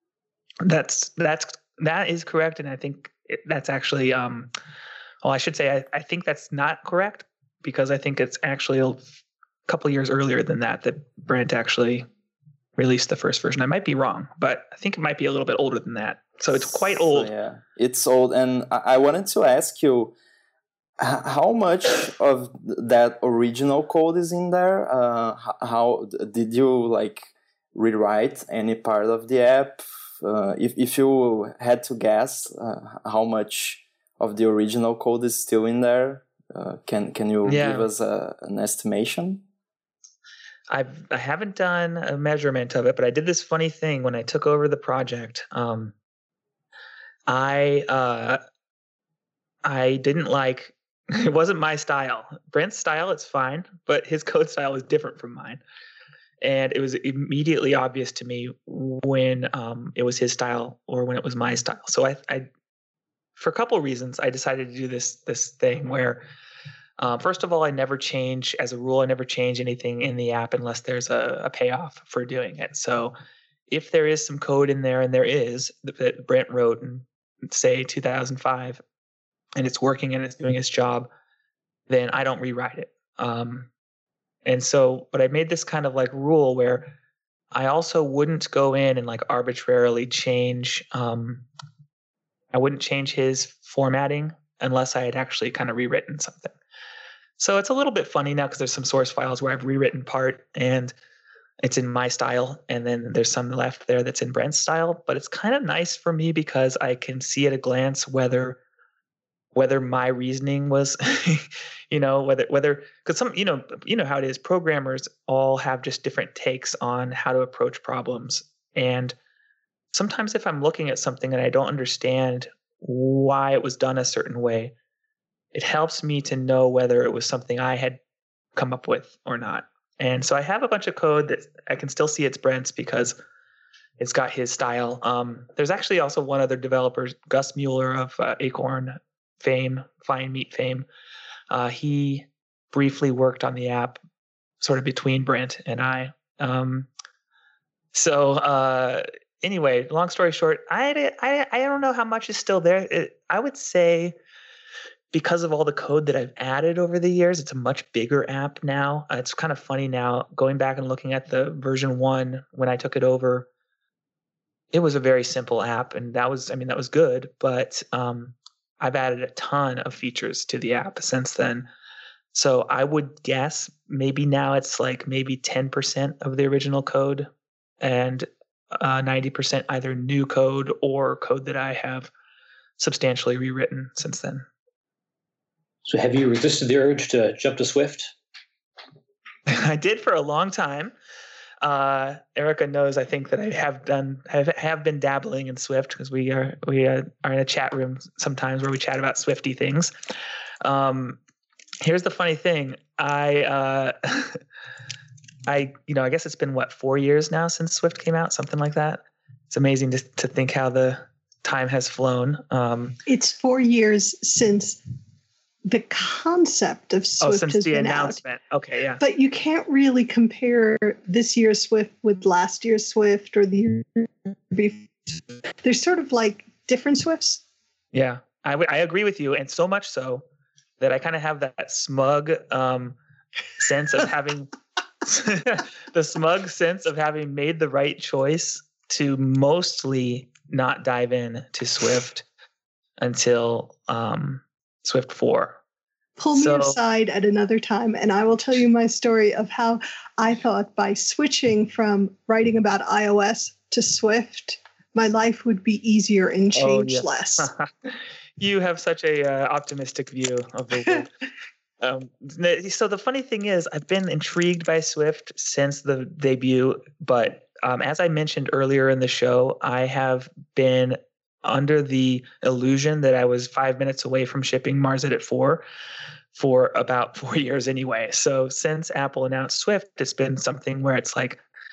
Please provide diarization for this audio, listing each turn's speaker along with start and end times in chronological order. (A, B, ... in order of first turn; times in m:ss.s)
0:00.6-0:04.5 A
0:05.2-0:09.1 A
0:09.7-0:12.1 A
0:12.8-0:17.3 A
0:16.7-0:20.1 B
0:21.0-0:39.4 B
0:37.4-0:37.9 A
0:40.7-0:46.0 A
0:47.3-0:48.4 A
0:49.6-0:55.6 A
0:56.4-1:02.5 A
1:03.4-1:06.2 A
1:07.0-1:13.2 A
1:13.7-1:18.8 A
1:19.6-1:21.1 A
1:21.9-1:23.7 A
1:24.4-1:26.9 A
1:27.5-1:31.5 A
1:32.5-1:36.6 A
1:37.4-1:40.9 A
1:41.6-1:48.6 A
1:49.5-1:59.2 A
1:59.9-2:04.7 A
2:05.5-2:08.0 A
2:08.6-2:13.2 A
2:14.0-2:20.9 A
2:21.5-2:24.0 A
2:24.6-2:26.9 A
2:27.9-2:34.2 A
2:35.1-2:43.5 A
2:44.7-2:51.7 A
2:52.3-2:57.3 A
2:57.8-3:02.1 A
3:02.8-3:04.5 A
3:05.9-3:08.1 C
3:09.5-3:10.9 A
3:11.6-3:19.9 A
3:20.6-3:21.2 A
3:21.8-3:24.4 A
3:25.5-3:33.0 A
3:33.1-3:34.8 D
3:35.7-3:38.2 D
3:37.2-3:39.0 A
3:39.0-3:47.4 D
3:47.9-3:50.2 A
3:50.8-3:53.0 A
3:53.6-3:54.5 A
3:55.0-4:02.3 A
4:03.0-4:05.6 A
4:06.2-4:17.5 D
4:06.3-4:06.8 A
4:16.6-4:21.1 A
4:21.8-4:35.6 A
4:36.3-4:41.4 A